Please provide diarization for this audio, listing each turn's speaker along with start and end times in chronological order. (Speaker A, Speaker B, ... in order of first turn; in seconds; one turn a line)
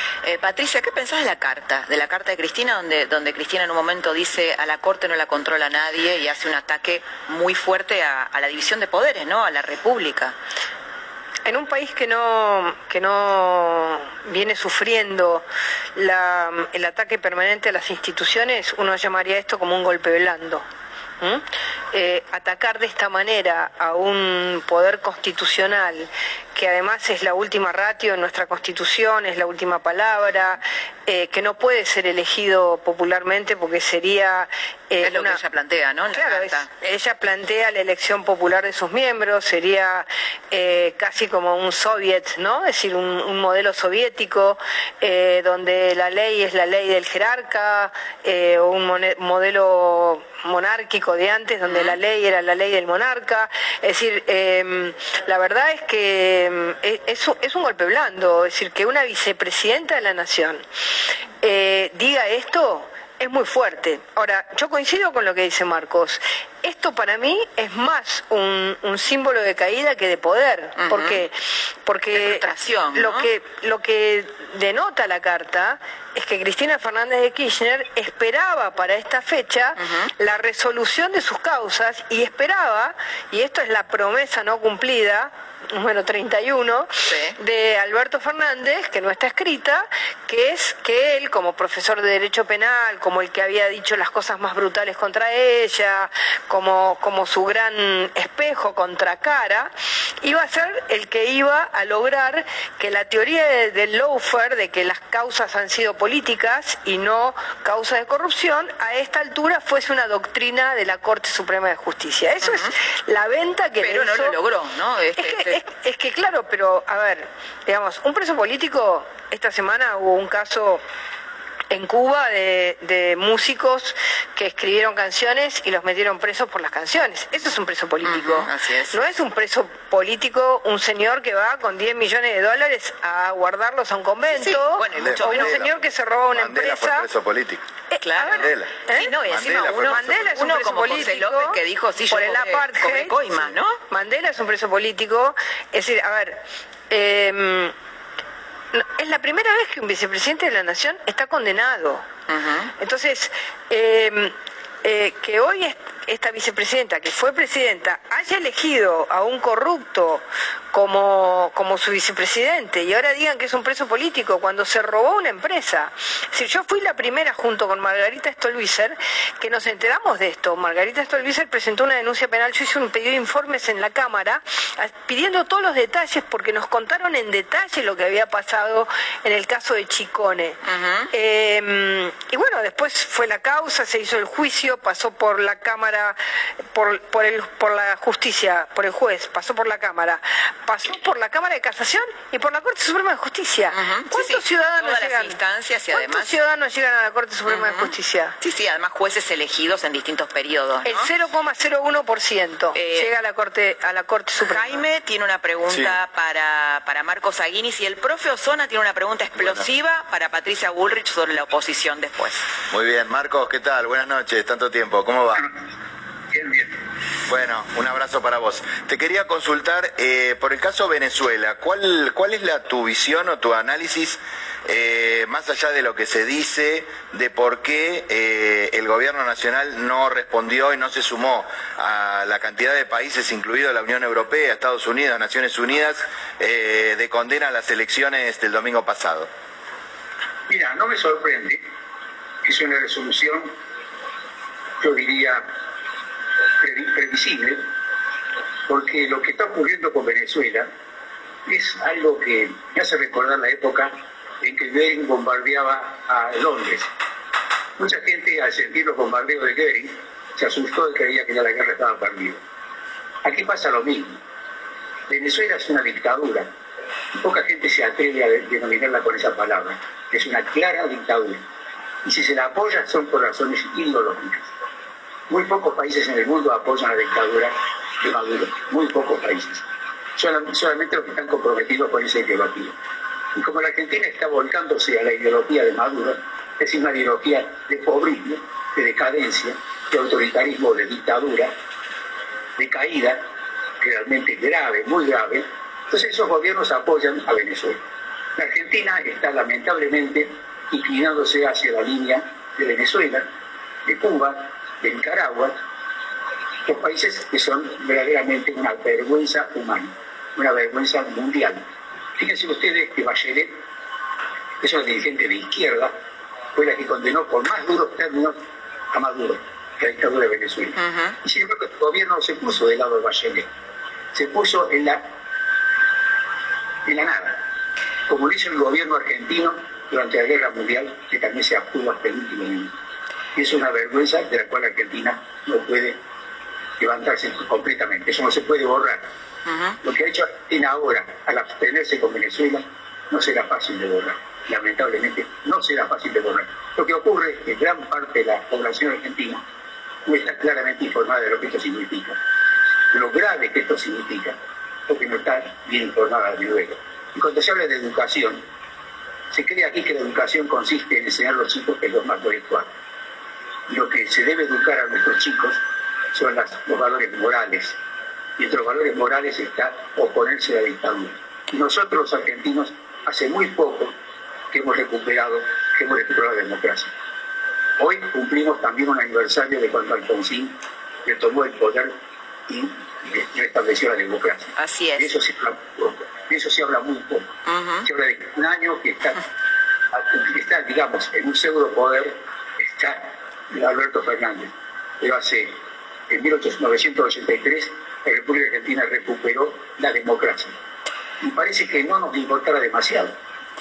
Speaker A: 0.2-10.4
Speaker B: 11.5-15.4
Speaker B: 16.0-20.6
Speaker B: 21.2-35.4
Speaker A: 35.0-36.7
Speaker B: 36.1-60.6
Speaker A: 51.6-52.0
Speaker B: 61.4-71.3
Speaker A: 70.8-71.2
Speaker B: 71.8-114.4
Speaker A: 72.1-73.3
Speaker A: 79.8-80.1
Speaker A: 87.1-87.4
Speaker A: 112.4-112.7
Speaker A: 113.8-115.6
Speaker B: 115.2-120.8
Speaker B: 121.7-137.1
Speaker A: 128.0-129.1
Speaker A: 134.3-135.7
Speaker C: 134.9-137.6
Speaker B: 137.9-147.7
Speaker A: 138.0-143.8
Speaker C: 138.3-140.2
Speaker B: 148.7-152.1
Speaker A: 152.3-152.7
Speaker B: 152.8-180.6
Speaker A: 180.7-181.1
Speaker B: 181.1-186.2
Speaker B: 186.7-198.4
Speaker A: 193.7-196.4
Speaker A: 197.5-201.1
Speaker B: 200.8-204.8
Speaker A: 202.7-203.1
Speaker A: 204.4-212.4
Speaker C: 205.7-206.0
Speaker C: 209.4-209.6
Speaker C: 212.7-215.5
Speaker D: 216.3-216.7
Speaker C: 217.3-239.3
Speaker D: 240.5-241.6
Speaker D: 242.4-243.5
Speaker D: 244.8-245.4
Speaker D: 246.6-247.7
Speaker D: 248.7-250.7
Speaker D: 251.5-256.9
Speaker D: 257.8-262.4
Speaker D: 263.2-264.2
Speaker D: 265.1-266.5
Speaker D: 267.1-271.4
Speaker D: 272.0-274.5
Speaker D: 275.3-279.6
Speaker D: 280.2-282.8
Speaker D: 283.4-291.5
Speaker D: 292.6-293.2
Speaker D: 293.8-297.8
Speaker D: 298.4-303.3
Speaker D: 303.9-305.6
Speaker D: 306.7-311.6
Speaker D: 312.2-313.6
Speaker D: 314.6-315.9
Speaker D: 316.6-318.4
Speaker D: 318.9-323.5
Speaker A: 320.8-321.2
Speaker D: 324.1-325.0
Speaker D: 326.9-327.4
Speaker D: 328.1-332.7
Speaker D: 333.4-336.0
Speaker D: 336.8-339.1
Speaker A: 339.5-339.8
Speaker D: 339.8-349.4
Speaker D: 350.1-352.2
Speaker D: 352.9-354.4
Speaker D: 354.9-358.4
Speaker D: 359.3-362.7
Speaker D: 363.7-365.6
Speaker D: 366.1-367.8
Speaker D: 368.4-373.9
Speaker D: 374.5-376.9
Speaker D: 377.8-381.9
Speaker D: 382.5-387.3
Speaker A: 384.6-385.1
Speaker A: 387.5-387.9
Speaker D: 387.9-389.2
Speaker D: 389.9-395.6
Speaker D: 396.1-400.6
Speaker D: 401.2-403.1